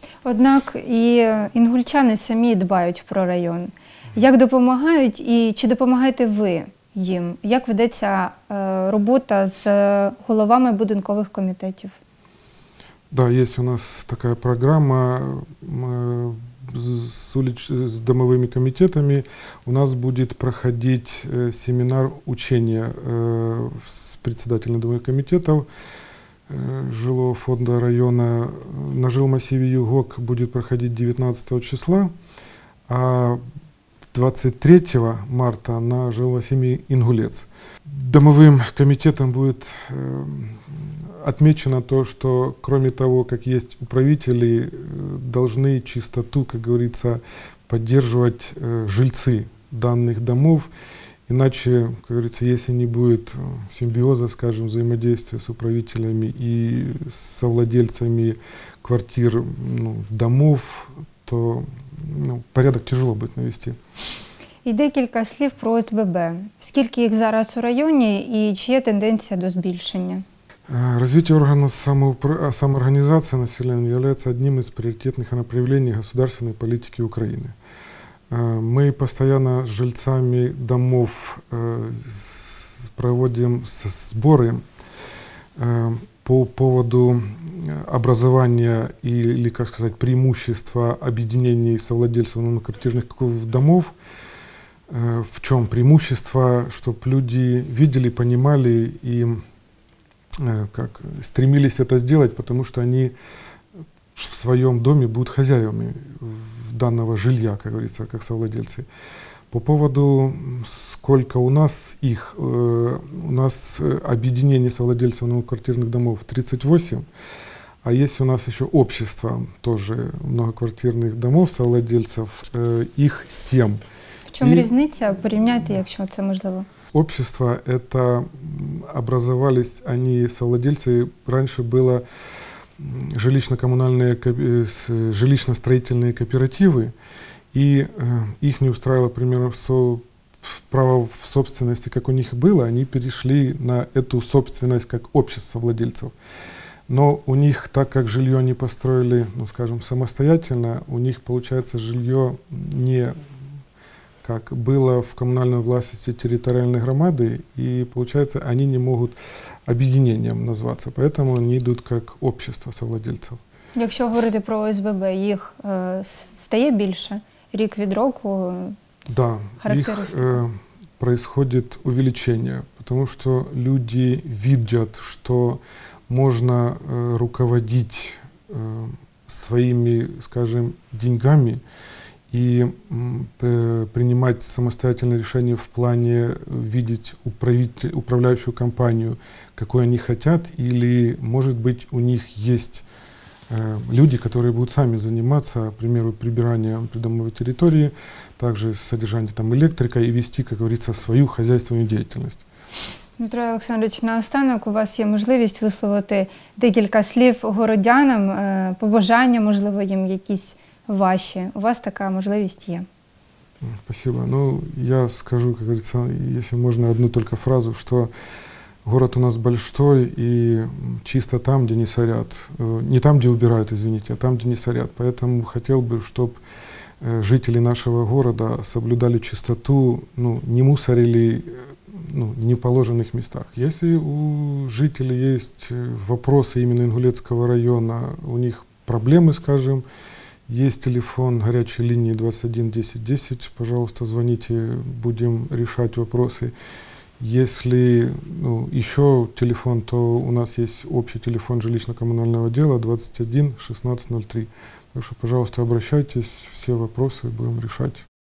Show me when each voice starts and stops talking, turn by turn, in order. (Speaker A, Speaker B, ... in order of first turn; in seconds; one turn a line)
Speaker A: 0.2-12.0
Speaker B: 13.1-25.7
Speaker B: 26.5-32.1
Speaker B: 32.9-33.4
Speaker B: 34.1-50.7
Speaker B: 51.3-63.8
Speaker A: 64.7-70.2
Speaker B: 70.7-77.5
Speaker B: 78.3-84.6
Speaker B: 85.6-93.9
Speaker B: 94.9-99.4
Speaker B: 100.3-103.1
Speaker B: 104.2-108.9
Speaker B: 109.5-117.0
Speaker B: 117.8-123.8
Speaker A: 124.3-126.7
Speaker B: 124.4-124.7
Speaker B: 126.9-132.0
Speaker B: 132.8-136.9
Speaker B: 137.5-146.1
Speaker B: 146.9-153.2
Speaker B: 154.2-159.2
Speaker B: 159.7-163.4
Speaker A: 163.8-168.8
Speaker B: 169.1-181.6
Speaker A: 169.6-170.4
Speaker B: 182.3-192.8
Speaker B: 193.5-202.4
Speaker A: 203.2-212.9
Speaker B: 213.6-218.1
Speaker B: 218.8-226.4
Speaker B: 227.0-239.8
Speaker B: 240.5-246.5
Speaker B: 247.2-258.0